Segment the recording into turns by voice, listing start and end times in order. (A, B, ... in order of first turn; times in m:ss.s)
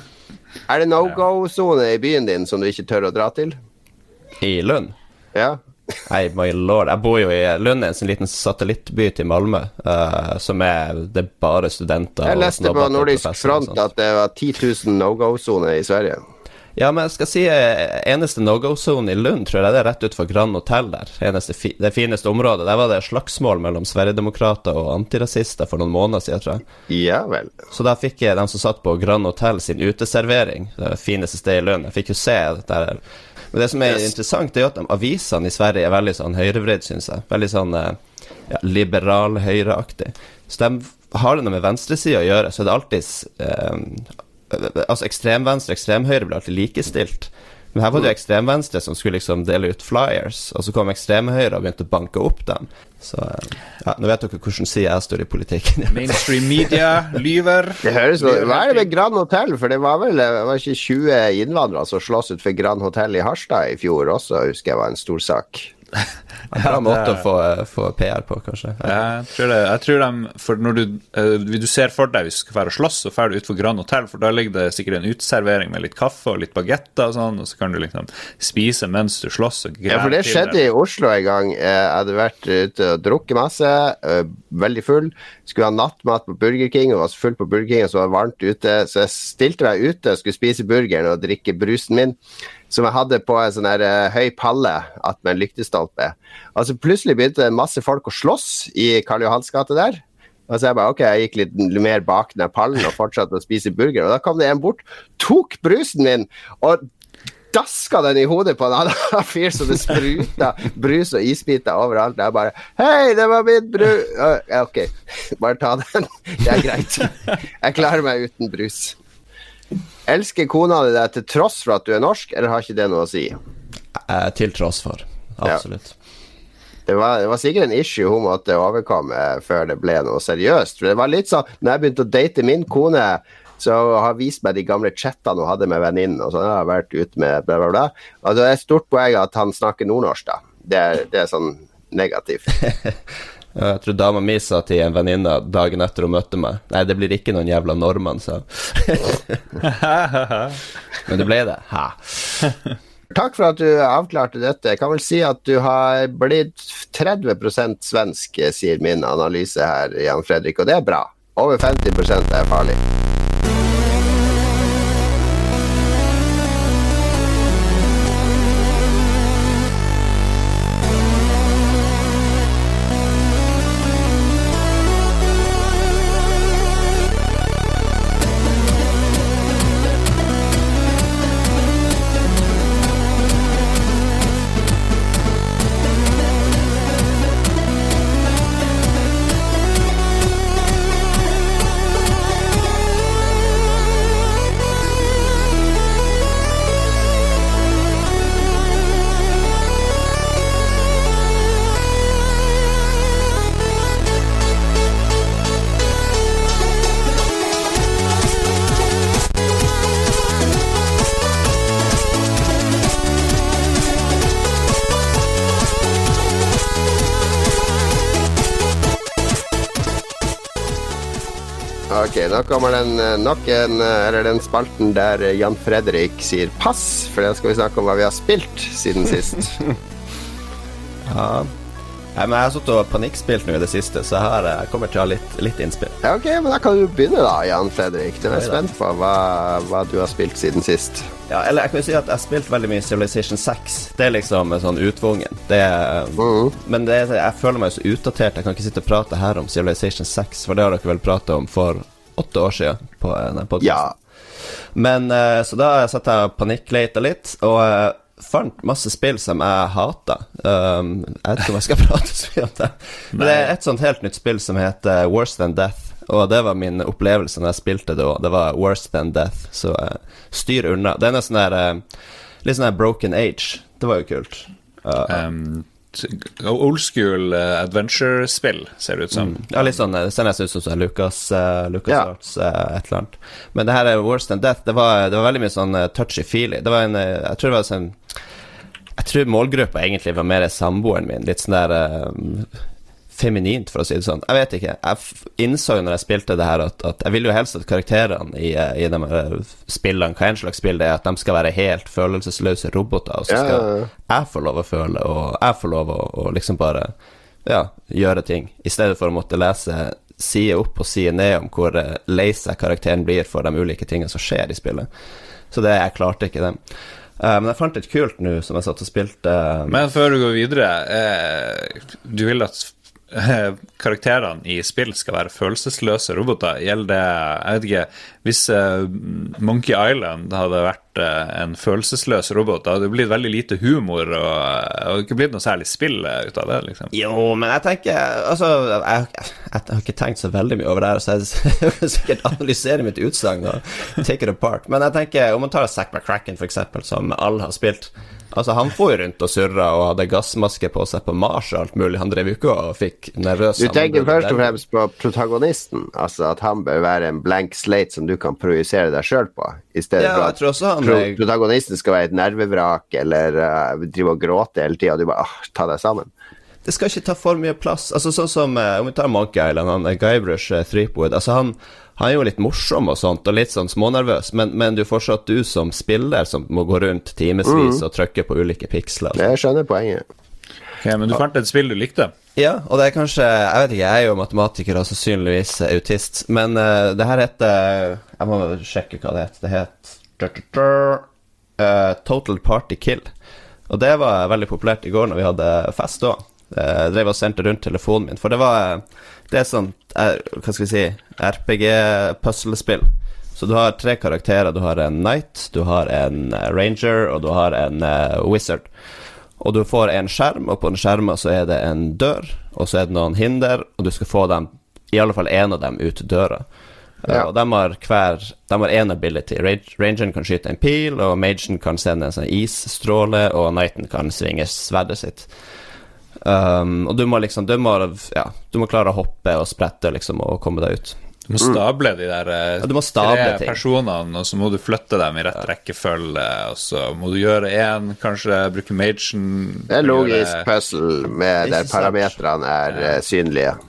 0:00.7-0:03.6 A
0:04.4-0:04.9 B
0:06.1-0:13.8 B
0:12.2-0:16.2 A
0:16.8-0:26.6 B
0:26.9-0:27.5 A
0:27.7-0:33.0 B
0:33.5-0:38.0 B
0:38.5-0:56.8 B
0:55.9-0:58.9 C
0:57.8-1:05.7 A
1:06.5-1:09.0 B
1:06.5-1:07.2 C
1:08.8-1:20.6 C
1:19.9-1:32.2 A
1:32.7-1:46.8 A
1:47.5-1:59.0 A
2:00.1-2:03.4 A
2:03.9-2:05.9 B
2:06.9-2:22.6 A
2:23.5-2:29.4 B
2:29.6-2:30.6 C
2:31.0-2:32.5 B
2:33.1-2:42.8 A
3:41.9-3:49.6 A
3:51.1-3:51.5 B
3:52.1-3:56.0 B
3:56.0-4:01.1 A
4:01.3-4:13.9 B
4:06.2-4:06.5 A
4:13.6-4:13.9 A
4:14.7-4:31.8 B
4:23.1-4:23.5 C
4:32.4-4:35.2 B
4:35.1-4:39.7 C
4:39.1-4:48.0 B
4:49.0-4:52.5 B
4:53.1-5:06.9 B
5:03.3-5:03.9 A
5:07.4-5:14.9 B
5:15.5-5:16.6 B
5:17.2-5:19.8 B
5:19.7-5:36.9 C
5:36.9-5:54.6 B
5:53.6-6:06.1 A
6:00.0-6:01.2 B
6:06.6-6:19.3 B
6:17.4-6:17.8 A
6:19.1-6:20.0 A
6:20.8-6:22.1 C
6:22.4-6:31.0 B
6:31.6-6:33.1 B
6:33.7-6:48.7 B
6:49.4-6:56.4 B
6:57.0-7:05.3 B
7:06.2-7:11.0 B
7:11.3-7:20.5 C
7:12.6-7:13.6 B
7:19.7-7:23.6 A
7:21.4-7:22.2 B